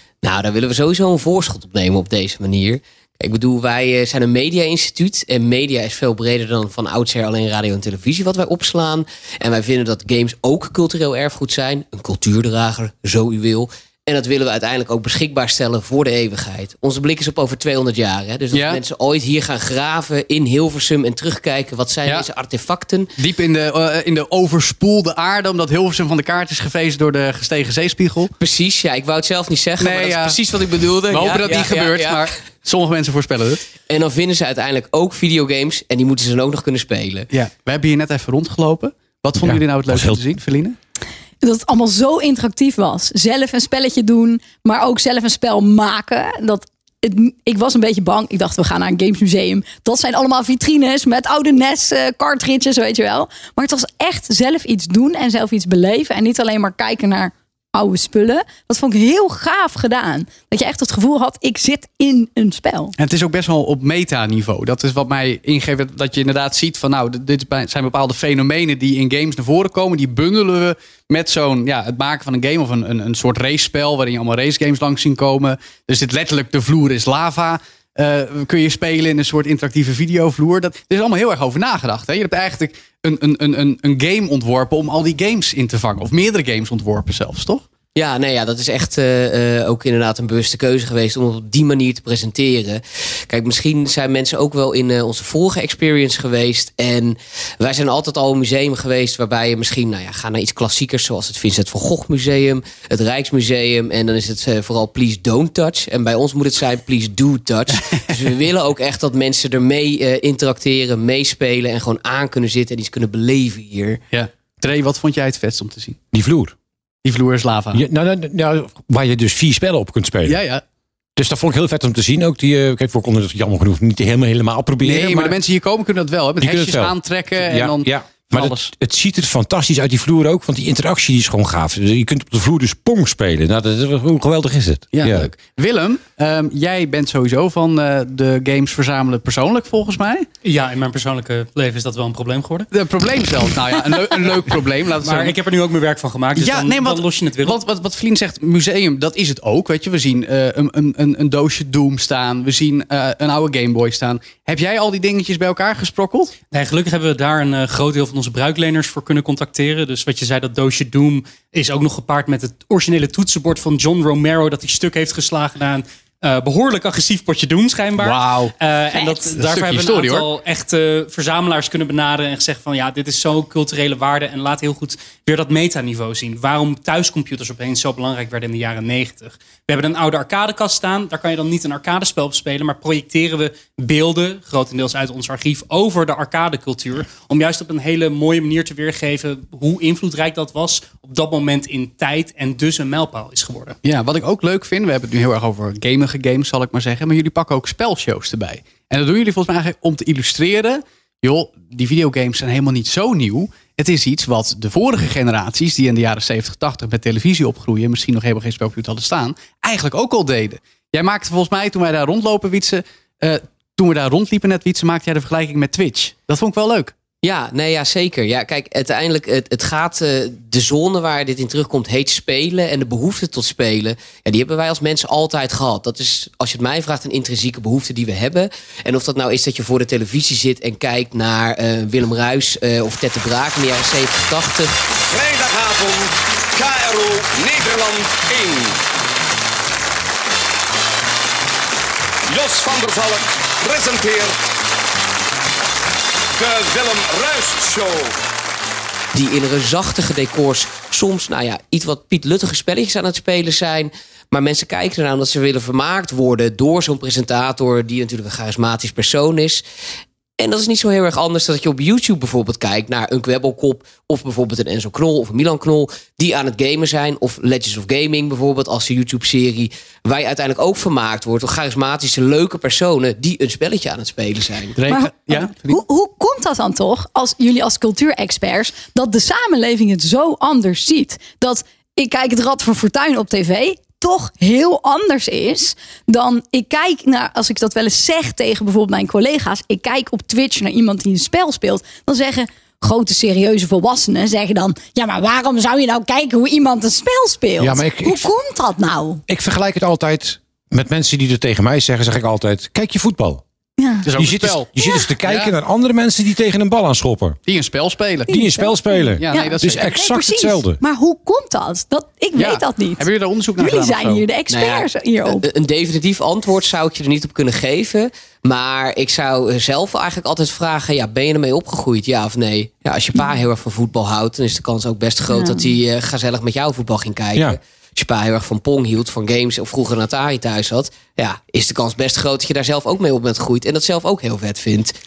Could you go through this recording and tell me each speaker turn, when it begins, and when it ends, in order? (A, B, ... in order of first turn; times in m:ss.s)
0:00.2-0:23.1 A
0:18.5-0:18.8 B
0:23.2-0:28.3 B
0:28.4-0:32.2 A
0:29.8-0:30.4 B
0:31.1-0:33.6 B
0:33.9-0:37.3 A
0:37.3-0:40.8 B
0:39.4-0:40.2 C
0:41.4-1:02.9 D
1:03.0-1:27.6 B
1:27.9-1:54.0 A
1:47.9-1:48.2 B
1:54.1-1:56.0 B
1:56.1-1:56.5 C
1:57.0-1:57.8 B
1:57.7-2:00.4 C
2:00.2-2:00.6 B
2:01.2-2:05.4 C
2:04.8-2:08.7 B
2:06.4-2:15.3 C
2:14.9-2:20.3 B
2:20.4-2:22.7 E
2:22.7-2:25.4 B
2:25.0-2:27.6 E
2:26.3-2:36.3 B
2:36.5-3:13.8 E
2:48.0-2:50.3 B
3:13.8-3:36.9 B
3:37.2-3:54.7 A
3:55.1-3:58.8 F
4:02.3-4:04.4 F
4:06.4-4:08.1 F
4:09.1-4:19.6 A
4:20.4-4:34.8 A
4:34.8-4:35.8 B
4:34.9-4:59.2 D
4:57.6-4:58.3 C
4:59.3-5:03.4 C
5:03.8-5:04.0 D
5:04.0-5:04.7 B
5:04.1-5:07.4 C
5:05.2-5:05.5 B
5:07.4-5:08.4 B
5:08.3-5:10.8 C
5:08.3-5:13.0 D
5:09.0-5:09.9 B
5:12.3-5:14.3 B
5:13.6-5:15.4 D
5:14.5-5:34.9 A
5:25.3-5:25.7 D